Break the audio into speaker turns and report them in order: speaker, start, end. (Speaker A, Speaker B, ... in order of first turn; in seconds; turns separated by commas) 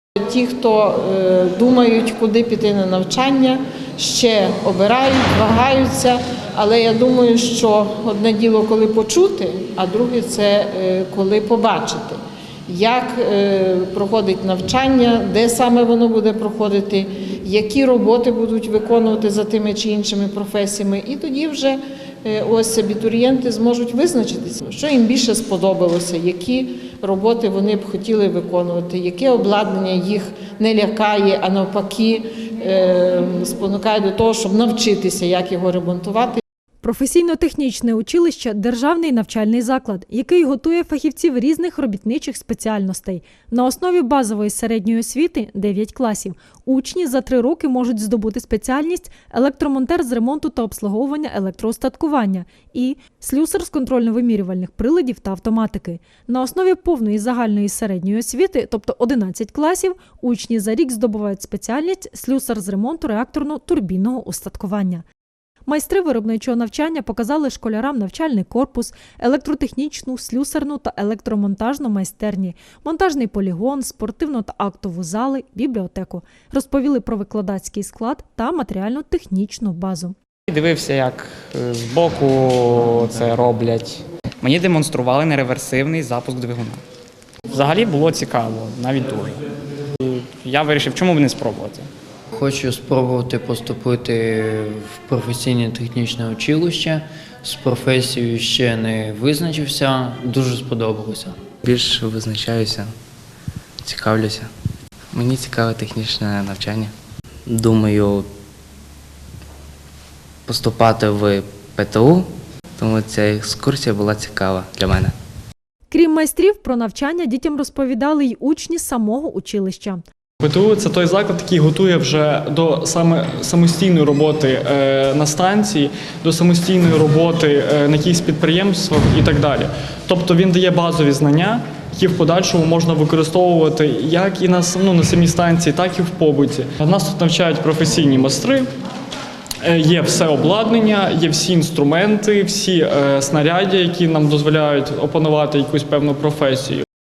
Speaker A: 0.2-36.4, Speaker B: 36.8-65.0, Speaker B: 65.7-80.2, Speaker C: 80.9-82.5, Speaker C: 83.3-85.2, Speaker C: 87.5-89.3, Speaker C: 90.5-91.8, Speaker D: 92.3-101.4, Speaker E: 101.6-102.9, Speaker E: 103.8-104.5, Speaker E: 105.1-106.9, Speaker E: 107.5-108.3, Speaker E: 110.5-112.3, Speaker E: 112.8-115.1, Speaker B: 115.9-120.0, Speaker F: 120.4-138.7, Speaker F: 139.6-146.8